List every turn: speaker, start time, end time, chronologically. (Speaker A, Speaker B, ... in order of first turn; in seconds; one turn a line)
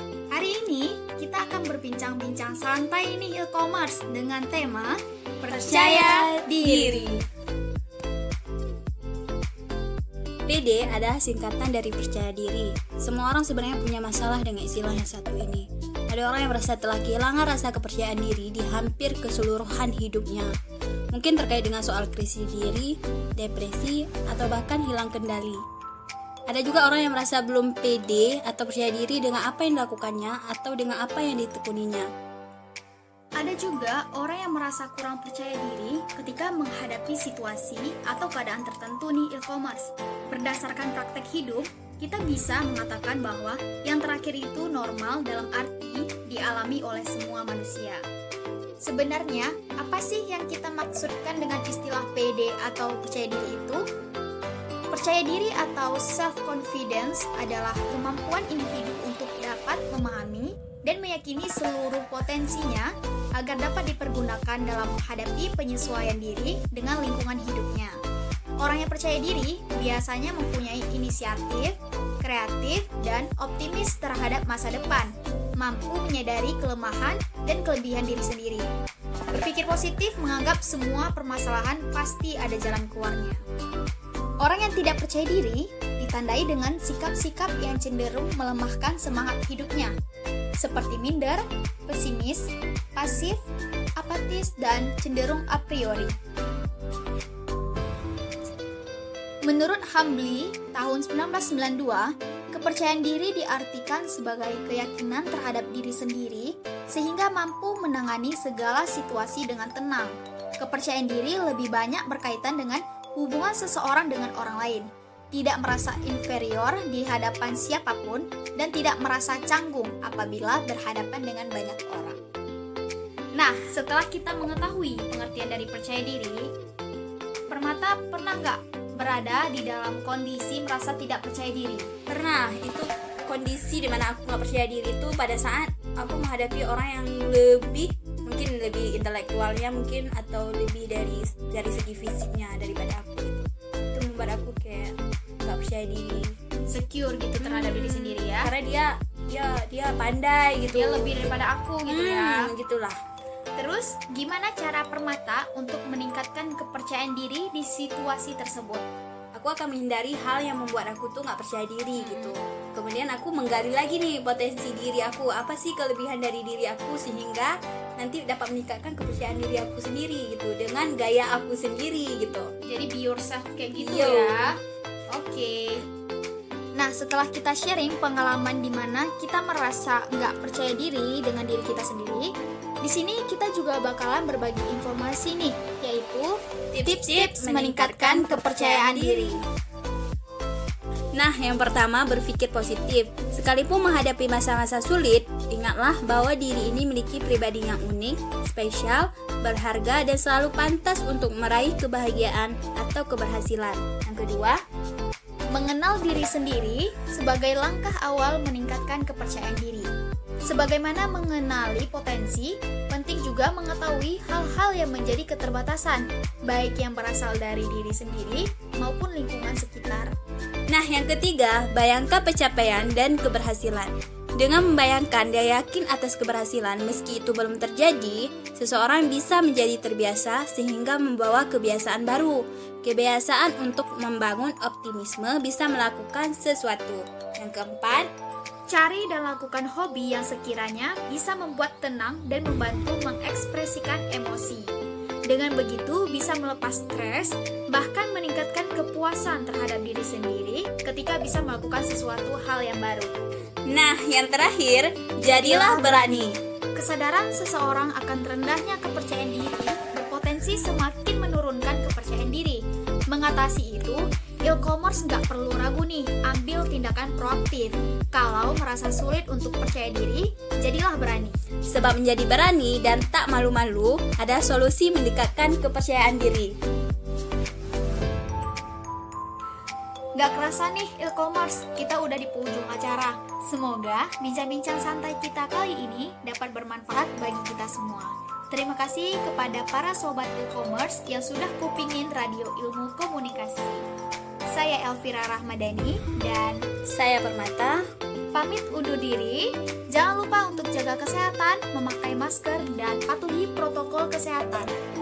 Speaker A: 0.3-7.2
Speaker B: 5.5-7.2
Speaker B: 10.5-20.5
Speaker B: 21.1-25.6
Speaker B: 26.5-32.1
Speaker A: 33.4-48.0
Speaker A: 48.8-53.8
Speaker A: 54.9-67.9
Speaker A: 68.6-78.7
Speaker A: 79.3-83.4
Speaker A: 84.4-89.9
Speaker A: 90.6-93.4
Speaker A: 94.0-96.1
Speaker A: 99.4-122.2
Speaker A: 123.3-126.5
Speaker A: 127.5-131.9
Speaker B: 132.1-146.3
Speaker A: 146.7-148.5
Speaker B: 147.4-151.3
Speaker A: 150.7-152.5
Speaker B: 151.8-153.0
Speaker A: 153.6-158.8
Speaker B: 159.3-172.5
Speaker A: 161.9-162.3
Speaker A: 172.6-174.5
Speaker B: 173.8-174.3
Speaker A: 175.1-175.8
Speaker A: 176.8-182.3
Speaker A: 182.8-189.4
Speaker B: 186.7-189.4
Speaker B: 191.1-204.6
Speaker A: 205.5-209.9
Speaker A: 210.4-220.1
Speaker B: 220.7-238.1
Speaker A: 238.7-244.8
Speaker A: 245.3-253.2
Speaker B: 253.7-256.4
Speaker A: 255.3-256.1
Speaker A: 256.7-271.4
Speaker B: 271.7-276.5
Speaker A: 280.2-293.8
Speaker A: 294.5-296.6
Speaker B: 296.9-297.8
Speaker A: 298.3-304.7